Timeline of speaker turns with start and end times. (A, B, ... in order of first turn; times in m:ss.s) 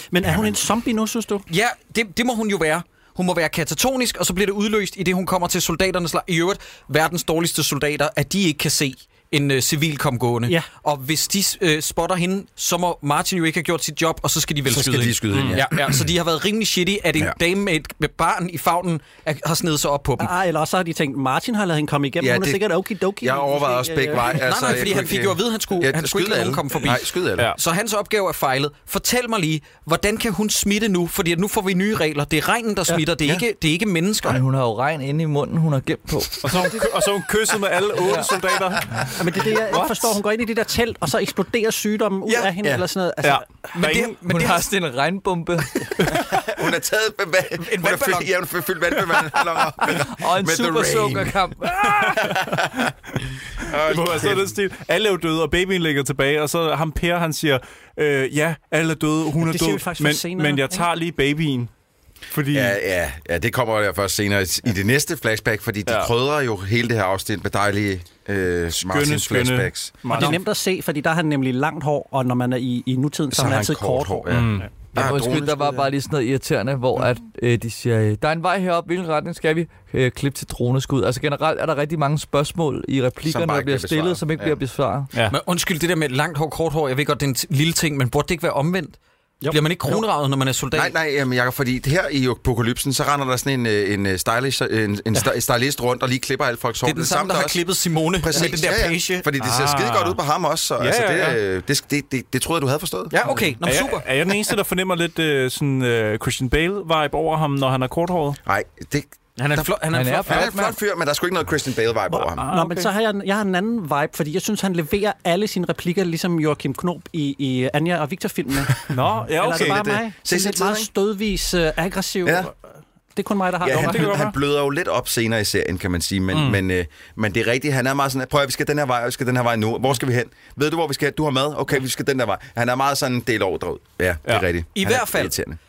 0:00.1-0:01.4 A
0:01.5-0:20.3 B
0:14.7-0:16.0 C
0:15.3-0:15.6 D
0:20.2-0:24.8 A
0:22.2-0:22.6 C
0:23.2-0:27.5 C
0:24.3-0:34.4 B
0:34.2-0:36.8 E
0:36.4-0:40.2 D
0:38.0-0:38.3 E
0:39.2-0:43.5 A
0:43.2-0:44.2 D
0:43.8-0:44.7 B
0:44.3-0:45.9 E
0:46.0-0:51.4 C
0:47.6-0:48.3 B
0:49.9-0:52.4 E
0:51.9-0:52.3 D
0:52.0-0:52.9 C
0:53.6-1:01.7 D
0:53.6-0:54.5 C
0:59.4-1:00.9 A
1:02.3-1:02.8 D
1:02.5-1:10.0 C
1:08.7-1:10.4 D
1:10.1-1:14.4 A
1:13.3-1:15.9 C
1:14.3-1:14.7 D
1:14.9-1:25.1 E
1:23.3-1:24.6 C
1:25.3-1:29.0 B
1:29.4-1:30.0 A
1:29.5-1:30.9 B
1:30.7-1:37.6 C
1:36.8-1:39.2 B
1:38.2-1:43.2 C
1:39.4-1:40.2 D
1:40.8-1:41.4 D
1:43.1-1:44.1 B
1:43.6-1:48.4 D
1:48.5-1:52.5 C
1:49.4-1:50.6 B
1:49.9-1:50.7 E
1:52.1-2:02.5 A
1:52.4-1:52.9 D
1:58.9-1:59.8 D
1:59.5-2:00.9 C
2:02.2-2:02.5 C
2:03.2-2:04.2 A
2:03.6-2:15.6 C
2:03.7-2:04.4 D
2:06.3-2:06.6 D
2:14.8-2:15.4 B